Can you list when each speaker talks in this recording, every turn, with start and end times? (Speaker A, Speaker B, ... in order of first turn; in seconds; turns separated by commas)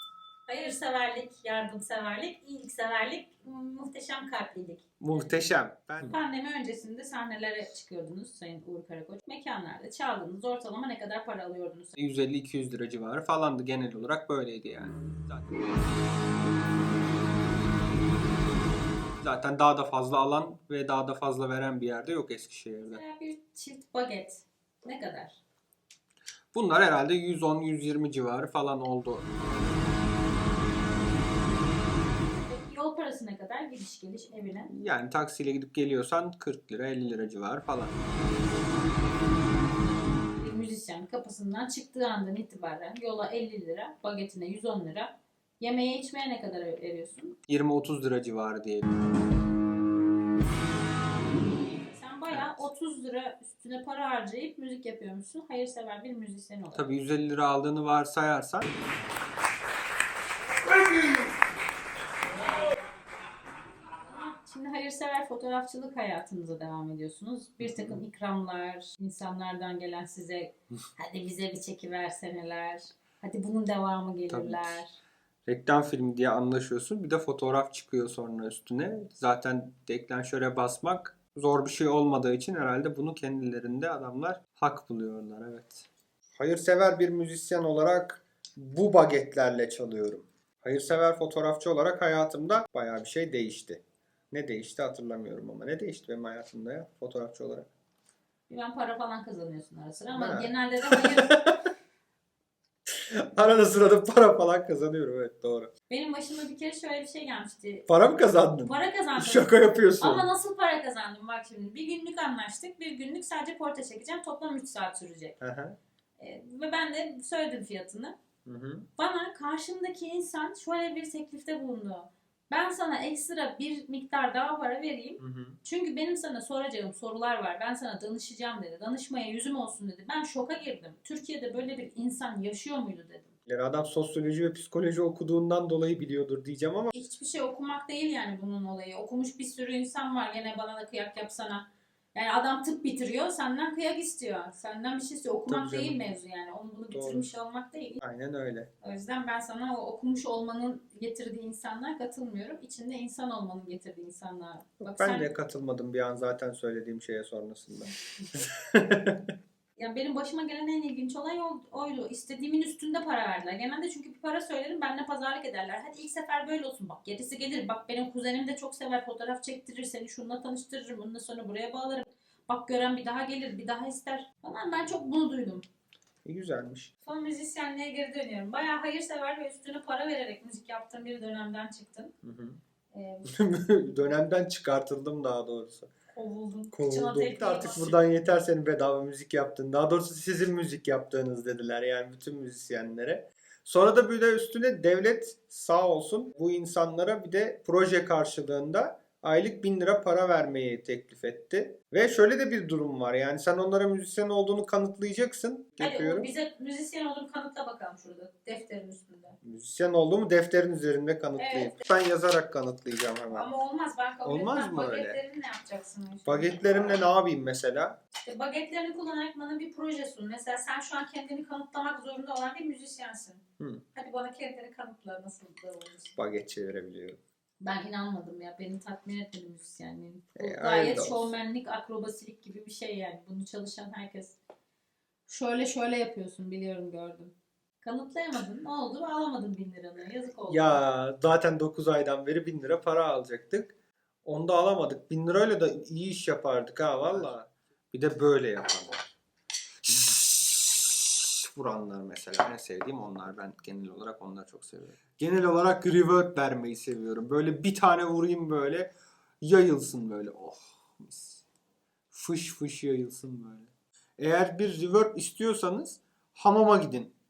Speaker A: 0.5-5.2, Speaker B: 5.0-6.2, Speaker A: 6.0-11.9, Speaker B: 12.0-15.7, Speaker B: 19.2-23.0, Speaker A: 22.9-25.4, Speaker B: 26.5-29.3, Speaker A: 32.4-34.7, Speaker B: 34.7-37.9, Speaker A: 40.3-47.4, Speaker B: 47.5-49.0, Speaker A: 51.8-57.0, Speaker B: 52.3-52.6, Speaker B: 56.7-58.7, Speaker A: 64.0-75.0, Speaker B: 67.6-68.0, Speaker B: 74.3-74.8, Speaker B: 75.5-97.7, Speaker A: 98.5-101.3, Speaker B: 100.1-101.6, Speaker B: 102.9-105.7, Speaker A: 105.9-107.9, Speaker B: 107.9-110.3, Speaker A: 108.6-115.4, Speaker B: 115.4-115.8, Speaker A: 116.2-118.2, Speaker B: 118.5-118.9, Speaker A: 119.0-133.3, Speaker B: 125.2-125.6, Speaker B: 133.5-136.9, Speaker A: 136.9-148.0, Speaker B: 145.5-146.0, Speaker B: 146.9-147.3, Speaker B: 148.0-148.7, Speaker A: 148.8-155.3, Speaker B: 154.8-159.2, Speaker A: 159.8-175.7, Speaker B: 176.2-176.9, Speaker A: 177.1-182.1, Speaker B: 182.2-182.6, Speaker A: 182.9-183.3, Speaker B: 183.3-185.9, Speaker A: 186.1-188.0, Speaker B: 186.7-206.3, Speaker A: 205.8-209.4, Speaker B: 209.4-213.5, Speaker A: 211.4-211.8, Speaker A: 213.3-216.6, Speaker B: 214.2-215.2, Speaker B: 216.3-218.0, Speaker A: 218.2-226.2, Speaker B: 226.2-227.2, Speaker A: 227.6-234.4, Speaker B: 230.4-231.3, Speaker A: 235.3-240.8, Speaker B: 240.5-243.7, Speaker B: 244.2-249.1, Speaker B: 249.8-261.4, Speaker B: 262.1-267.1